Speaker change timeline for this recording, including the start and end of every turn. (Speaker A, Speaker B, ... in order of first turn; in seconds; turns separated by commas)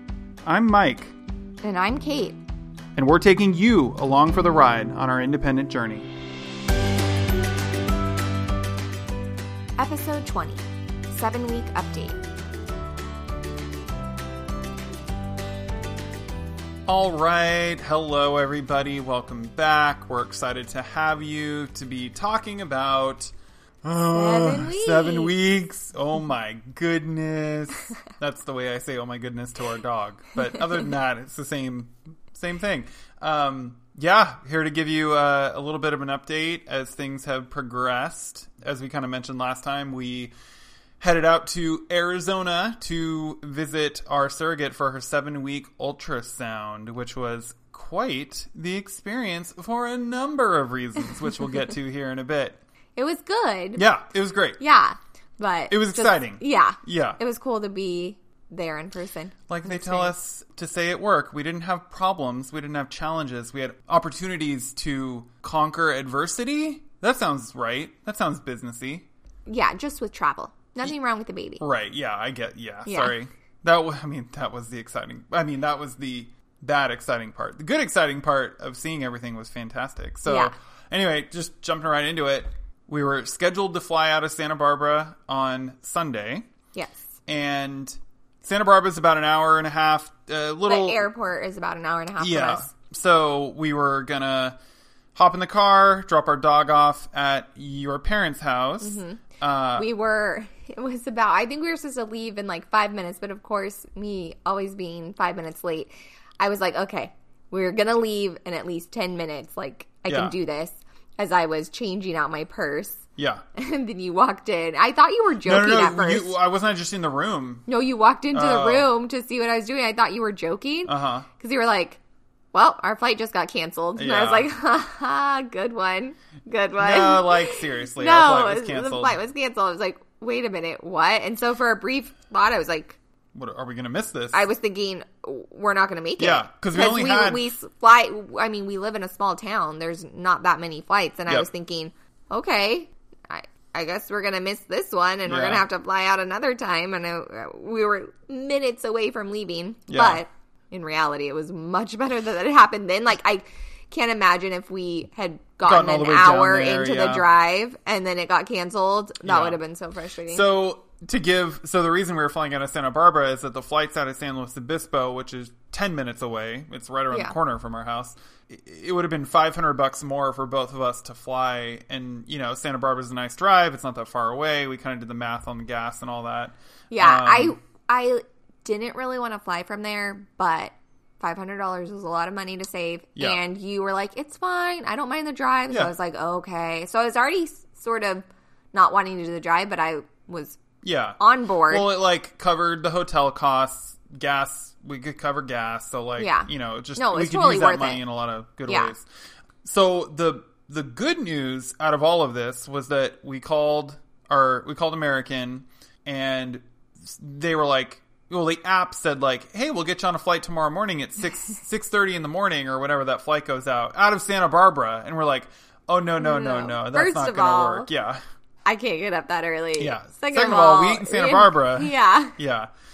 Speaker A: 0.4-1.1, Speaker B: 1.6-2.4, Speaker A: 3.0-6.1, Speaker B: 9.8-12.2, Speaker A: 16.9-40.3, Speaker B: 24.1-25.3, Speaker A: 41.0-52.6, Speaker B: 53.0-53.8, Speaker A: 53.8-54.6, Speaker B: 54.6-60.1, Speaker A: 55.7-57.2, Speaker A: 59.5-69.0, Speaker B: 69.5-71.6, Speaker A: 71.6-86.4, Speaker B: 72.8-73.1, Speaker B: 80.2-80.5, Speaker B: 86.7-87.1, Speaker A: 87.3-91.0, Speaker B: 90.7-92.7, Speaker A: 92.2-94.5, Speaker A: 95.1-99.9, Speaker B: 98.8-99.2, Speaker B: 99.8-116.3, Speaker A: 110.1-110.3, Speaker A: 113.2-113.4, Speaker A: 115.4-117.6, Speaker B: 117.7-122.0, Speaker A: 118.3-118.9, Speaker A: 120.8-121.2, Speaker B: 122.5-133.0, Speaker A: 124.0-124.5, Speaker A: 126.8-129.2, Speaker A: 133.3-134.5, Speaker B: 134.3-160.5, Speaker A: 136.2-137.4, Speaker A: 145.3-145.7, Speaker A: 149.9-150.2, Speaker A: 155.6-157.2, Speaker A: 159.2-159.6, Speaker A: 160.3-177.6, Speaker B: 176.9-190.6, Speaker A: 190.8-199.1, Speaker B: 191.2-191.9, Speaker B: 196.2-198.0, Speaker B: 198.7-198.9, Speaker A: 199.6-218.2, Speaker B: 216.2-217.9, Speaker B: 218.7-222.3, Speaker A: 219.8-222.7